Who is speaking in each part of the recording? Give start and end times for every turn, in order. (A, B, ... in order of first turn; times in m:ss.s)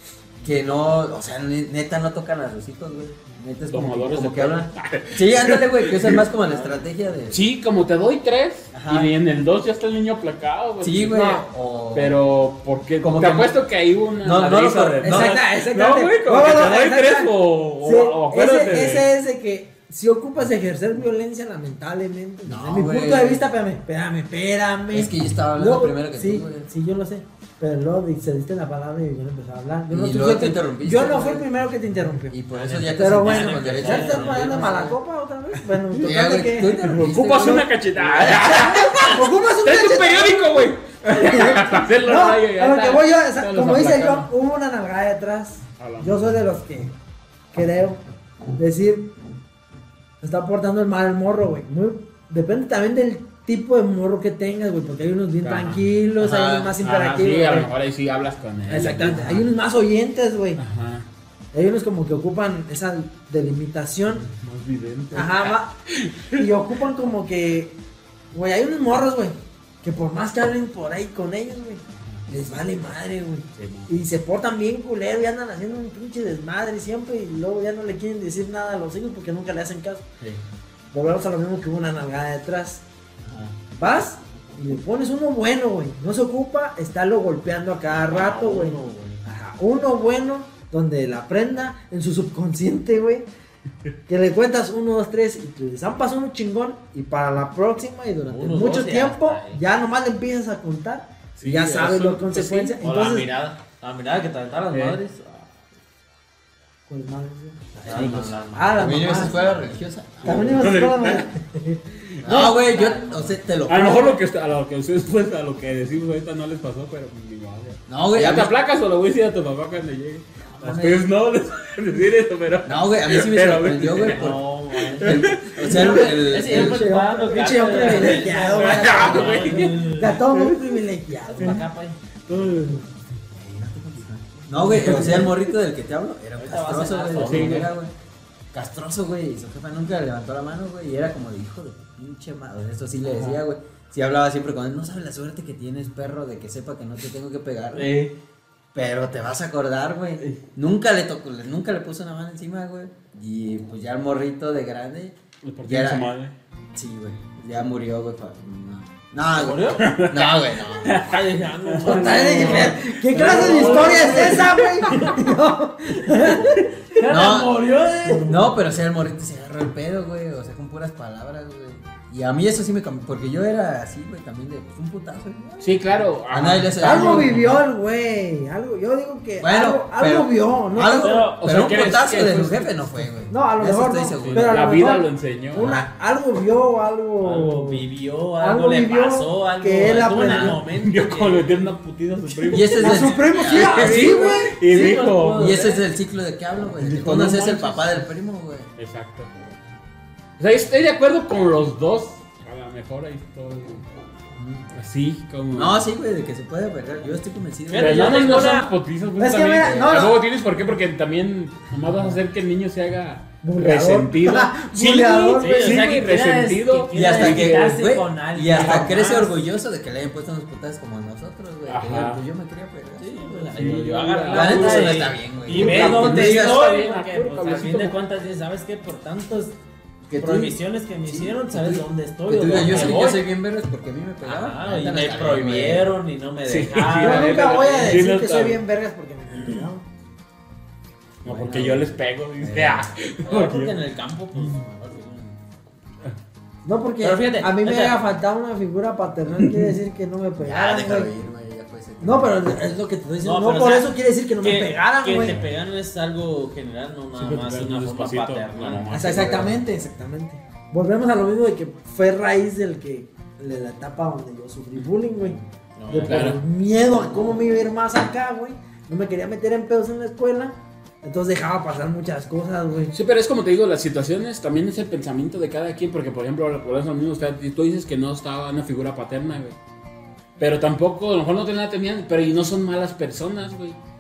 0:00.4-0:07.4 A
0:03.7-0:06.2 B
0:06.4-0:06.9 C
0:07.3-0:19.1 B
0:08.7-0:09.1 A
0:10.8-0:12.2 A
0:13.0-0:13.6 A
0:14.2-0:15.4 A
0:15.0-0:32.4 D
0:22.4-0:23.5 A
0:24.9-0:26.7 A
0:29.9-0:31.5 A
0:32.3-0:35.0 A
0:32.5-0:34.8 C
0:32.9-0:40.6 D
0:36.0-0:37.7 A
0:36.7-0:44.3 B
0:41.1-0:47.0 D
0:45.8-0:46.4 B
0:47.5-0:48.0 D
0:48.6-0:49.1 D
0:50.2-0:57.7 D
0:55.4-0:55.8 B
0:56.2-0:56.8 A
0:56.8-0:59.5 B
0:58.7-1:00.6 D
0:59.0-0:59.4 A
1:00.6-1:01.1 B
1:01.5-1:04.2 D
1:04.1-1:06.4 B
1:05.1-1:05.7 D
1:06.4-1:07.8 D
1:08.3-1:20.1 D
1:12.0-1:12.3 B
1:13.6-1:13.9 B
1:20.9-1:22.8 D
1:23.2-1:23.6 A
1:23.7-1:33.3 D
1:28.0-1:29.2 C
1:34.1-1:43.3 D
1:38.3-1:39.6 C
1:41.4-1:42.8 B
1:42.8-1:45.6 C
1:44.7-1:45.0 B
1:46.9-1:49.4 D
1:47.8-1:50.4 C
1:47.9-1:50.8 A
1:50.2-1:52.6 D
1:50.4-1:51.3 B
1:52.2-1:54.2 A
1:52.5-1:53.4 C
1:53.6-2:06.2 B
1:57.9-1:58.5 A
2:00.5-2:01.1 A
2:02.6-2:06.9 A
2:04.1-2:10.2 C
2:06.3-2:11.6 D
2:07.9-2:10.8 B
2:11.2-2:12.0 C
2:12.3-2:12.8 B
2:13.3-2:17.9 A
2:14.6-2:15.4 D
2:14.7-2:15.4 B
2:16.4-2:17.7 C
2:17.2-2:17.7 B
2:18.5-2:28.0 A
2:23.0-2:23.4 B
2:27.7-2:28.2 C
2:28.7-2:36.1 A
2:35.4-2:36.4 B
2:36.8-2:41.0 A
2:39.4-2:39.9 C
2:39.8-2:42.6 B
2:40.8-2:45.2 C
2:41.8-2:46.6 D
2:43.1-2:44.2 A
2:43.8-2:44.7 B
2:46.1-2:48.4 C
2:47.1-2:47.6 A
2:48.0-2:48.4 D
2:48.2-2:57.6 A
2:55.6-2:57.4 B
2:56.8-3:01.2 D
2:59.4-3:04.7 A
3:01.0-3:01.4 C
3:01.0-3:03.1 B
3:03.3-3:07.8 D
3:04.1-3:05.7 B
3:07.2-3:11.7 C
3:08.4-3:10.6 D
3:10.3-3:15.7 B
3:12.5-3:18.7 A
3:12.7-3:14.6 D
3:14.6-3:15.8 C
3:16.8-3:18.1 B
3:18.8-3:19.3 B
3:20.4-3:23.8 B
3:24.4-3:24.7 A
3:24.7-3:25.8 B
3:25.5-3:28.4 A
3:27.7-3:28.7 C
3:27.7-3:37.8 B
3:29.2-3:30.2 D
3:29.6-3:30.1 A
3:33.4-3:35.9 D
3:35.4-3:39.4 C
3:36.9-3:46.7 A
3:38.5-3:39.2 B
3:41.6-3:42.2 B
3:43.0-3:49.6 C
3:43.6-3:48.0 B
3:50.1-3:56.0 A
3:50.2-3:53.1 C
3:52.5-3:53.2 B
3:54.2-3:57.3 C
3:56.4-3:58.6 B
3:57.0-3:59.8 D
3:59.3-3:59.6 C
4:01.2-4:02.9 A
4:01.2-4:03.8 B
4:03.2-4:05.4 C
4:04.3-4:04.6 B
4:06.6-4:11.1 D
4:07.0-4:08.0 C
4:10.4-4:12.7 A
4:12.0-4:15.4 D
4:13.2-4:13.9 C
4:14.4-4:19.2 C
4:17.2-4:19.6 B
4:18.9-4:32.9 D
4:25.2-4:26.3 C
4:26.1-4:26.4 B
4:32.9-4:39.6 B
4:40.4-4:43.8 B